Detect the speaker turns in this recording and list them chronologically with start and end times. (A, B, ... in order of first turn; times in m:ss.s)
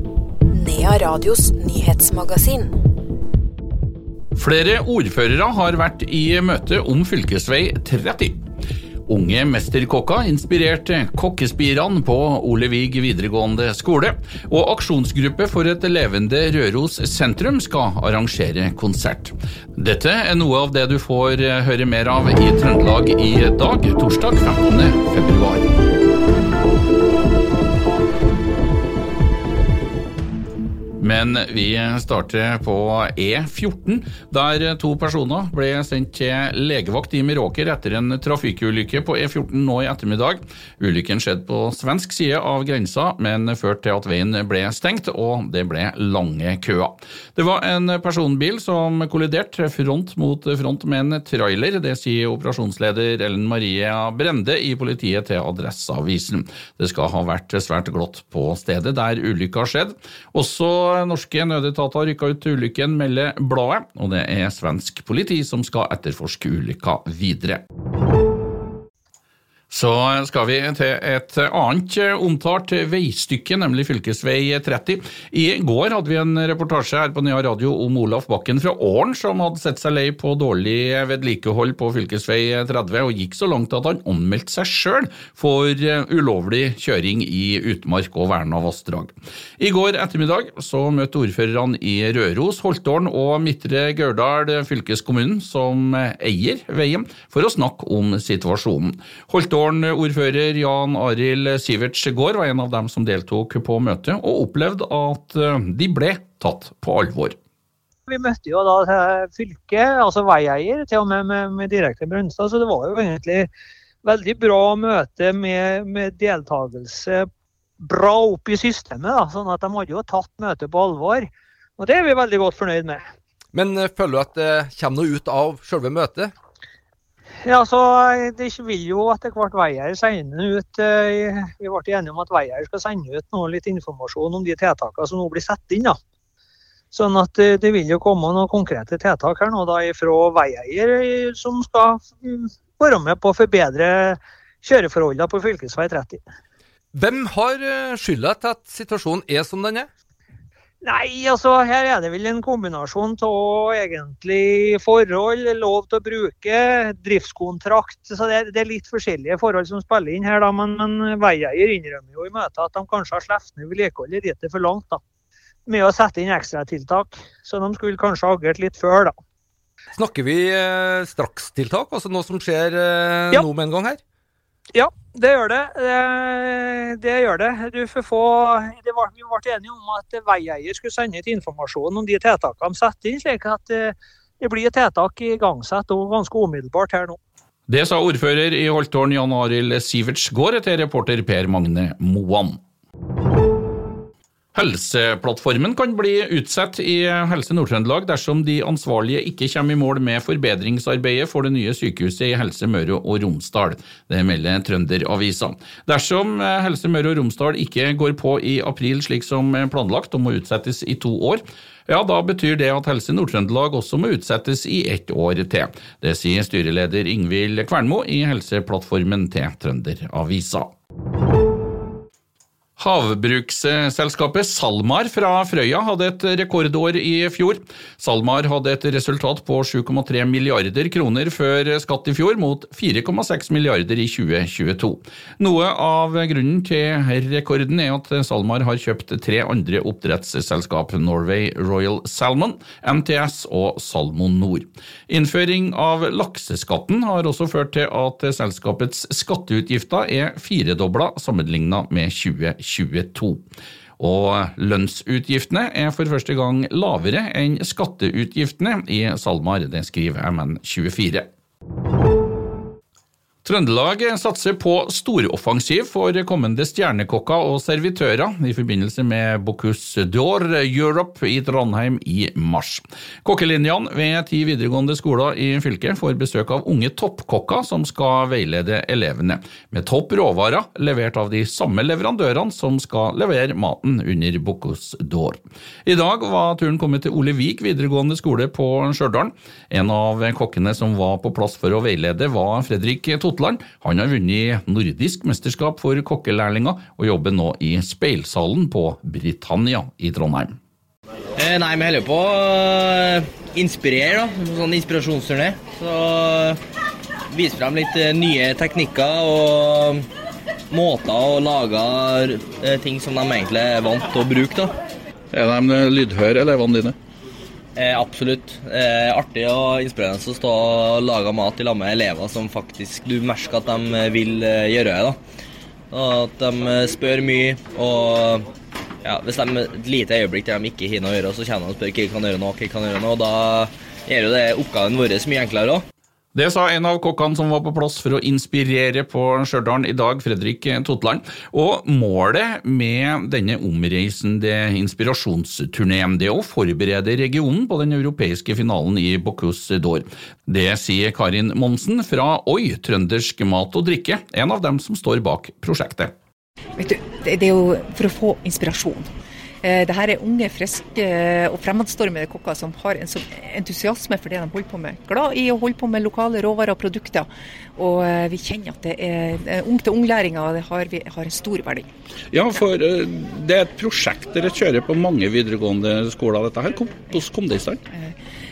0:00.5-0:02.8 A
0:04.3-0:08.4 B
0:09.1-0:25.7 B
0:31.0-1:07.6 B
1:09.7-1:47.4 B
1:48.1-1:53.5 C
1:54.0-1:57.2 C
1:57.8-2:03.0 C
2:03.5-2:06.3 D
2:07.4-2:16.0 C
2:16.9-2:26.2 C
2:26.9-2:29.9 D
2:30.8-2:45.0 C
2:45.7-2:49.1 C
2:49.9-2:54.0 D
2:54.7-3:07.2 C
3:07.7-3:12.6 B
3:14.5-3:40.7 B
3:42.8-4:13.4 B
4:14.0-4:21.2 B
4:23.4-5:00.6 B
5:01.4-5:06.6 E
5:07.3-5:10.0 E
5:10.7-5:14.7 E
5:15.3-5:17.0 B
5:17.8-5:25.2 E
5:25.9-5:28.4 E
5:29.0-5:35.8 E
5:36.3-5:56.1 B
5:56.8-5:59.1 F
5:59.6-6:11.9 F
6:12.3-6:17.8 B
6:17.9-6:18.2 F